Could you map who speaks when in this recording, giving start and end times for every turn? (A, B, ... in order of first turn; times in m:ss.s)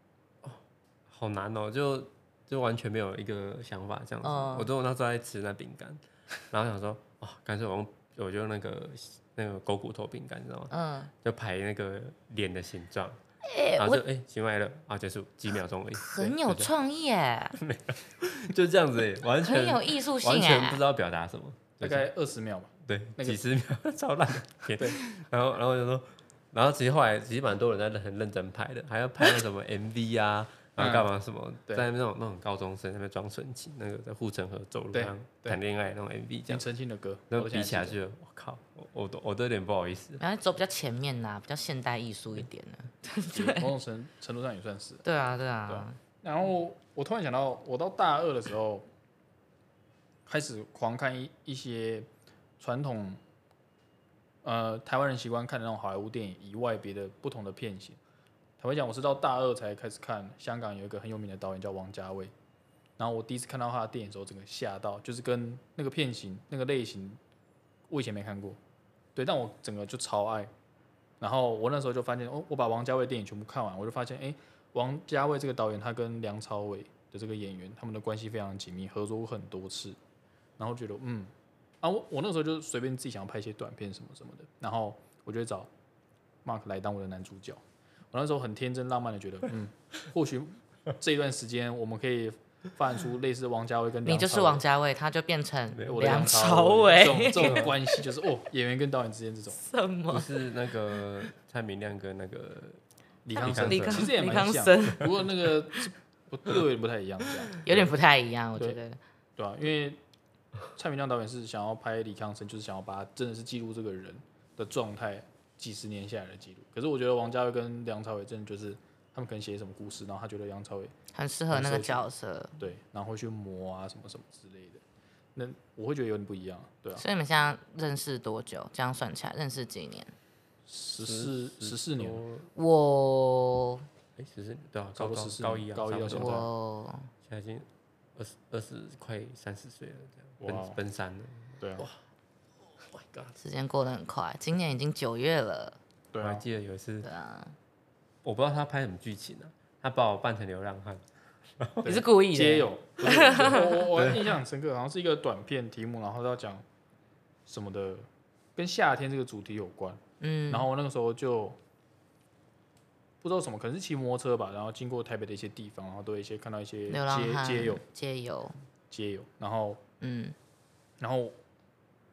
0:00.4-0:13.2 A
0:04.2-0:04.7 B
0:10.7-0:11.1 B
0:13.4-0:14.0 B
0:13.8-0:16.7 A
0:16.0-0:17.6 B
0:17.6-0:22.1 A
0:19.4-0:20.8 B
0:21.8-0:23.4 C
0:22.8-0:36.7 A
0:30.8-0:31.1 C
0:34.9-0:35.6 C
0:36.5-0:38.0 C
0:37.3-0:40.2 A
0:40.2-0:43.7 B
0:43.3-0:45.0 C
0:45.0-0:46.0 B
0:45.7-0:48.9 C
0:50.3-0:53.2 C
0:54.4-0:58.0 C
0:58.6-1:02.3 C
1:03.0-1:07.2 C
1:07.9-1:08.6 C
1:09.2-1:10.5 C
1:11.2-1:20.0 C
1:20.6-1:25.7 C
1:26.4-1:34.6 C
1:34.0-1:38.0 B
1:35.8-1:36.2 A
1:35.9-1:39.6 C
1:39.5-1:40.3 B
1:40.1-1:42.8 A
1:43.2-1:47.6 C
1:43.4-1:44.2 A
1:43.4-1:45.2 B
1:47.6-1:49.0 B
1:49.4-1:50.0 C
1:50.8-2:00.9 C
2:01.1-2:02.6 B
2:01.5-2:02.1 C
2:02.6-2:04.8 C
2:05.4-2:07.0 C
2:07.0-2:10.1 B
2:10.7-2:12.2 C
2:11.0-2:12.5 A
2:12.5-2:13.9 B
2:14.2-2:16.5 A
2:15.0-2:16.5 C
2:16.1-2:17.1 B
2:17.2-2:22.0 A
2:20.4-2:20.8 C
2:21.6-2:21.9 C
2:22.8-2:23.4 A
2:23.4-2:25.8 B
2:26.1-2:26.4 C
2:26.2-2:27.1 A
2:27.0-2:27.6 B
2:28.2-2:31.0 A
2:31.6-2:31.9 A
2:31.8-2:33.9 B
2:31.8-2:36.6 C
2:33.9-2:34.3 A
2:37.5-2:41.6 C
2:40.2-2:40.7 B
2:43.2-2:47.8 C
2:46.9-2:48.6 B
2:48.9-2:49.8 C
2:50.0-2:50.4 B
2:51.0-2:51.4 C